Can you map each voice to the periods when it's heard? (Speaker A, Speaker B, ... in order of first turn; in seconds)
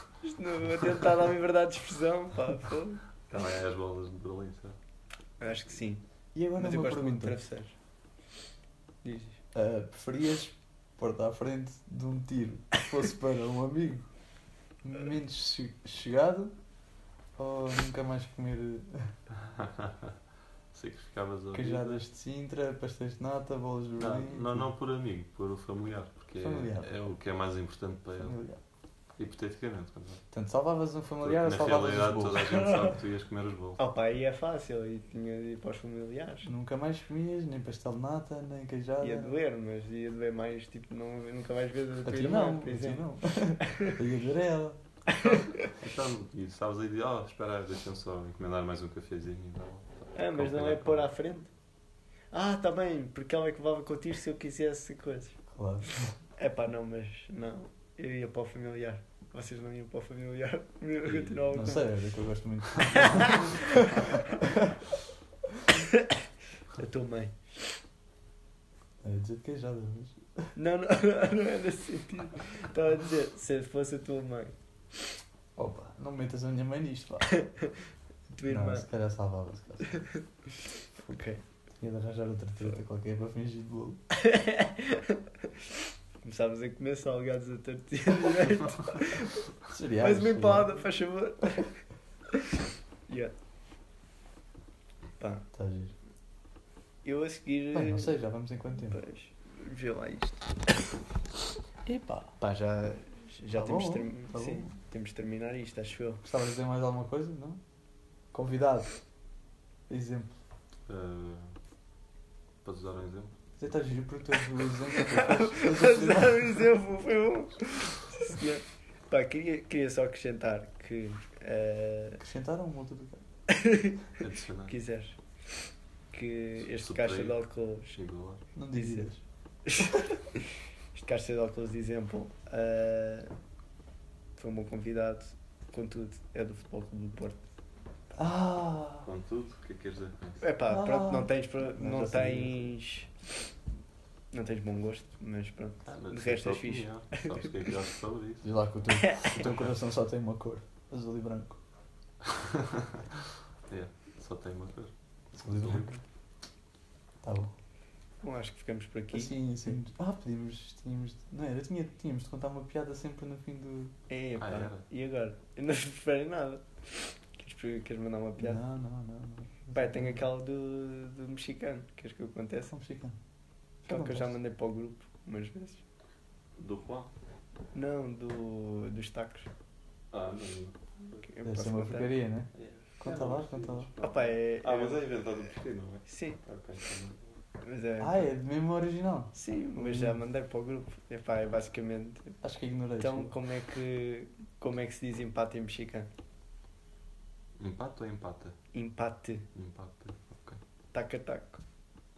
Speaker A: 0.2-3.0, 5.4-6.0, 6.5-7.7, 9.0-9.4, 32.5-32.9, 33.8-36.5, 39.0-43.0, 45.2-45.5, 50.1-51.5, 52.3-55.4, 56.4-61.9, 63.0-63.6, 66.7-67.4, 70.5-74.5, 77.4-77.7, 78.3-78.9, 81.0-81.4, 84.2-85.2, 86.2-89.4, 90.0-91.8, 93.1-93.3, 95.2-95.5, 97.0-98.2, 98.8-100.8, 102.4-106.2, 115.1-122.2, 123.5-124.0, 124.7-125.2, 126.1-128.0, 128.7-129.1, 129.7-130.4, 130.9-133.3, 134.4-137.4, 140.4-143.2, 144.3-147.5, 149.0-149.4, 158.2-159.4, 164.1-168.6, 169.7-172.7, 173.8-175.8, 177.7-179.5, 181.2-182.1, 184.0-185.3, 186.1-186.4, 187.6-188.3, 189.3-192.4, 193.0-196.1, 198.7-199.4, 200.9-201.6
Speaker B: 3.3-4.8, 19.5-20.1, 20.7-22.0, 24.0-28.4, 29.2-30.2, 31.2-33.8, 45.8-51.1, 61.0-61.4, 110.9-111.5, 112.6-113.3, 124.2-124.7, 126.6-128.4, 139.0-140.4, 145.8-148.5, 153.7-156.0, 164.4-164.8, 176.6-177.1, 180.1-181.3, 182.5-187.3, 197.6-198.5, 199.5-200.6
Speaker C: 6.3-7.4, 9.5-14.1, 14.8-16.5, 17.4-19.1, 21.5-24.7, 26.4-26.9, 28.2-28.6, 30.3-32.5, 36.4-39.3, 42.0-44.8, 55.5-56.1, 61.5-64.4, 69.0-70.3, 75.5-77.4, 78.5-80.0, 81.8-84.0, 89.7-90.9, 95.5-95.9, 97.7-99.0, 101.8-102.3, 103.5-104.7, 106.2-107.6, 108.3-109.0, 109.9-110.3, 113.6-116.7, 122.2-123.2, 128.6-129.2, 138.2-139.1, 140.7-142.6, 148.4-151.6, 155.3-156.0, 157.2-157.5, 159.1-163.9, 168.4-170.2, 172.7-173.2, 173.8-174.3, 181.4-183.9, 188.0-190.2, 192.4-193.4